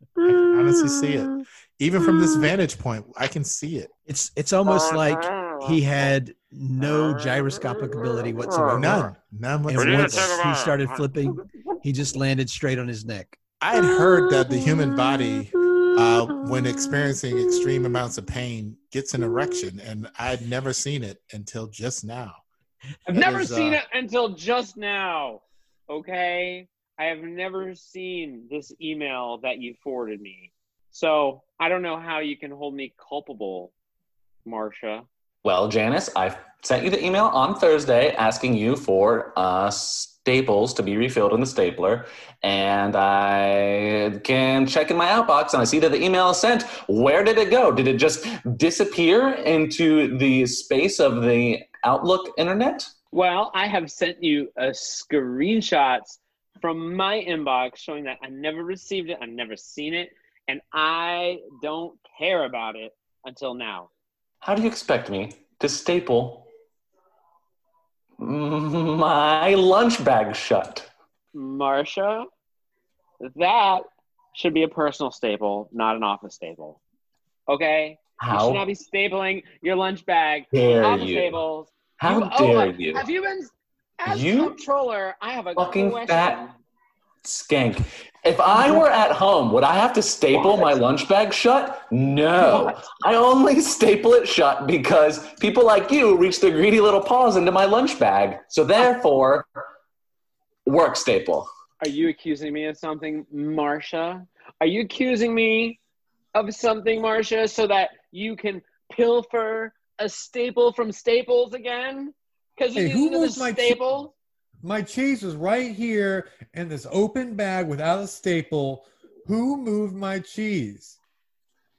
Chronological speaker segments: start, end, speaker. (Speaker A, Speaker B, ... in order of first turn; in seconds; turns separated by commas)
Speaker A: 0.2-3.9, Speaker B: 4.0-9.1, Speaker A: 8.7-10.4, Speaker B: 9.7-13.4, Speaker A: 13.6-22.4, Speaker C: 23.1-33.7, Speaker A: 23.1-23.8, Speaker C: 34.4-35.0, Speaker D: 35.4-52.9, Speaker C: 53.1-63.9, Speaker D: 64.4-66.5, Speaker D: 68.2-70.9, Speaker C: 71.3-72.3, Speaker C: 73.2-76.8, Speaker C: 77.5-86.5, Speaker D: 78.2-78.6, Speaker D: 80.5-81.4, Speaker D: 82.0-83.0, Speaker D: 84.0-84.6, Speaker D: 85.5-86.4, Speaker D: 87.2-99.5, Speaker C: 90.3-90.7, Speaker C: 92.4-92.8, Speaker D: 100.7-101.5, Speaker C: 101.8-105.8, Speaker C: 106.3-114.1, Speaker E: 112.7-114.0, Speaker E: 114.6-121.0